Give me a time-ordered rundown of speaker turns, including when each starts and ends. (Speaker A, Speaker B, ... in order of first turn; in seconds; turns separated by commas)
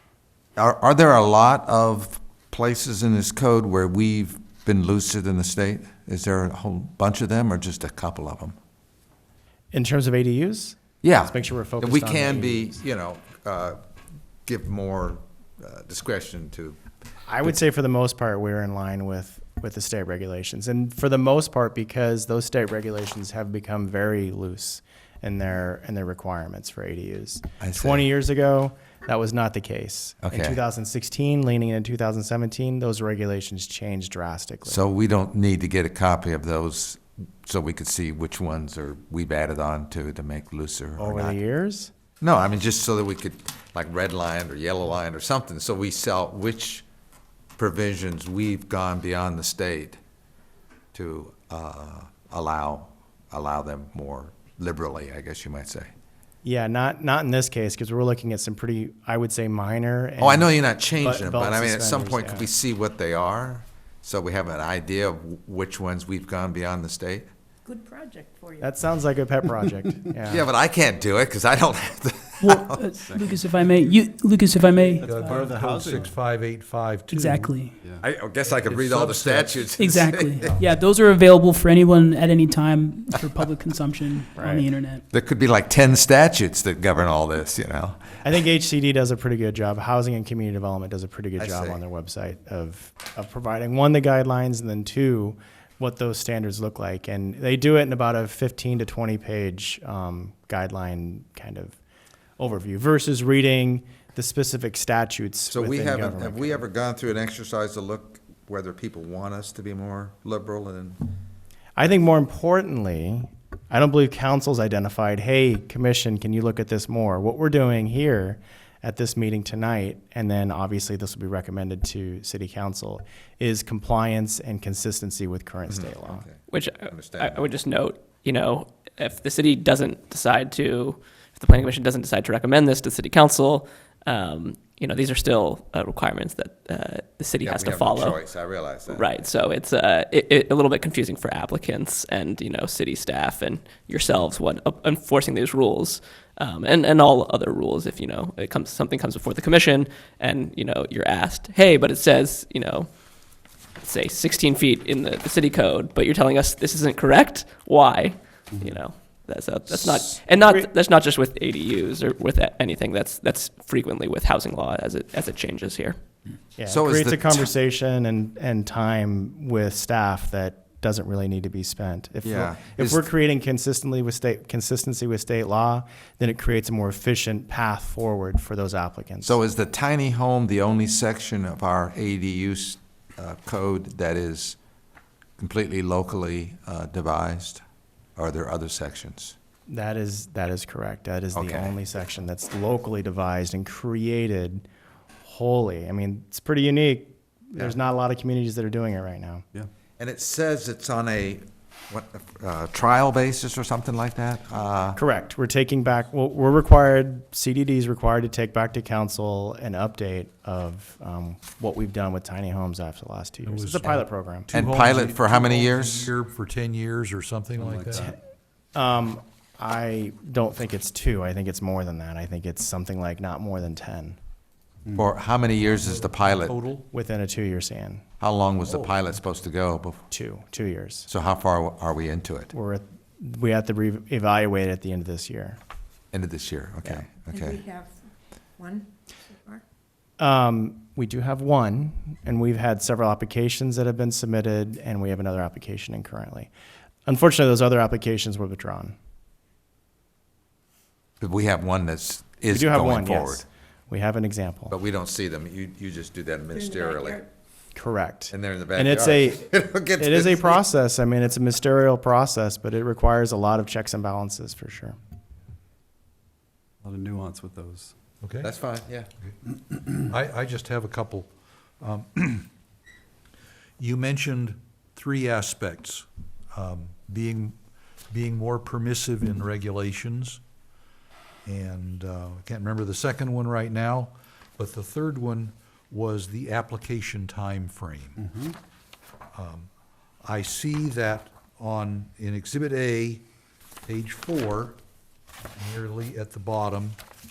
Speaker A: 0.6-8.6, Speaker B: 9.7-12.8, Speaker A: 11.0-13.8, Speaker A: 14.5-16.8, Speaker B: 17.3-34.8, Speaker A: 27.6-28.0, Speaker A: 30.2-30.6, Speaker A: 34.7-41.4, Speaker B: 41.0-41.9, Speaker A: 42.2-46.8, Speaker A: 47.6-50.0, Speaker A: 50.9-55.9, Speaker B: 56.4-62.5, Speaker A: 60.2-67.3, Speaker C: 67.7-68.7, Speaker B: 68.6-70.5, Speaker A: 70.3-72.9, Speaker D: 72.4-75.6, Speaker E: 73.0-73.3, Speaker E: 74.9-76.2, Speaker F: 75.0-77.6, Speaker D: 77.1-77.8, Speaker A: 78.0-80.5, Speaker F: 78.5-79.7, Speaker D: 79.8-85.0, Speaker B: 84.3-84.7, Speaker A: 85.1-88.2, Speaker B: 88.2-101.8, Speaker A: 91.4-91.8, Speaker B: 102.4-106.6, Speaker A: 105.5-111.0, Speaker B: 111.8-126.3, Speaker A: 125.7-127.5, Speaker G: 126.5-152.9, Speaker A: 137.4-139.3, Speaker G: 153.8-166.0, Speaker E: 158.5-158.8, Speaker B: 160.3-160.7, Speaker B: 166.6-179.4, Speaker A: 166.7-167.5, Speaker A: 172.2-173.1, Speaker A: 179.2-184.6, Speaker A: 185.4-187.6, Speaker A: 188.2-189.3, Speaker B: 189.7-194.7, Speaker A: 191.3-191.7, Speaker B: 195.2-199.4, Speaker A: 200.0-205.0, Speaker B: 204.9-214.5, Speaker F: 213.4-218.1, Speaker A: 214.5-216.1, Speaker E: 217.6-218.2, Speaker B: 218.8-224.2, Speaker A: 224.9-226.5, Speaker F: 225.7-226.8, Speaker B: 226.9-228.0, Speaker A: 228.2-230.0, Speaker F: 228.7-228.9, Speaker B: 230.1-231.1, Speaker A: 231.1-232.5, Speaker B: 232.5-235.6, Speaker A: 236.1-237.6, Speaker C: 237.3-238.0, Speaker C: 238.6-239.6, Speaker B: 240.2-246.5, Speaker B: 247.1-248.9, Speaker A: 251.2-253.4, Speaker B: 252.5-254.8, Speaker A: 254.7-257.2, Speaker C: 256.5-257.3, Speaker B: 257.8-265.0, Speaker A: 258.3-260.6, Speaker E: 266.8-267.9, Speaker F: 268.2-268.5, Speaker A: 268.4-269.1, Speaker F: 270.1-271.3, Speaker F: 271.8-272.5, Speaker F: 273.8-277.6, Speaker F: 278.1-280.4, Speaker F: 281.4-288.3, Speaker E: 288.2-288.6, Speaker F: 289.4-289.7, Speaker F: 290.2-293.2, Speaker F: 293.9-294.8, Speaker F: 295.6-297.0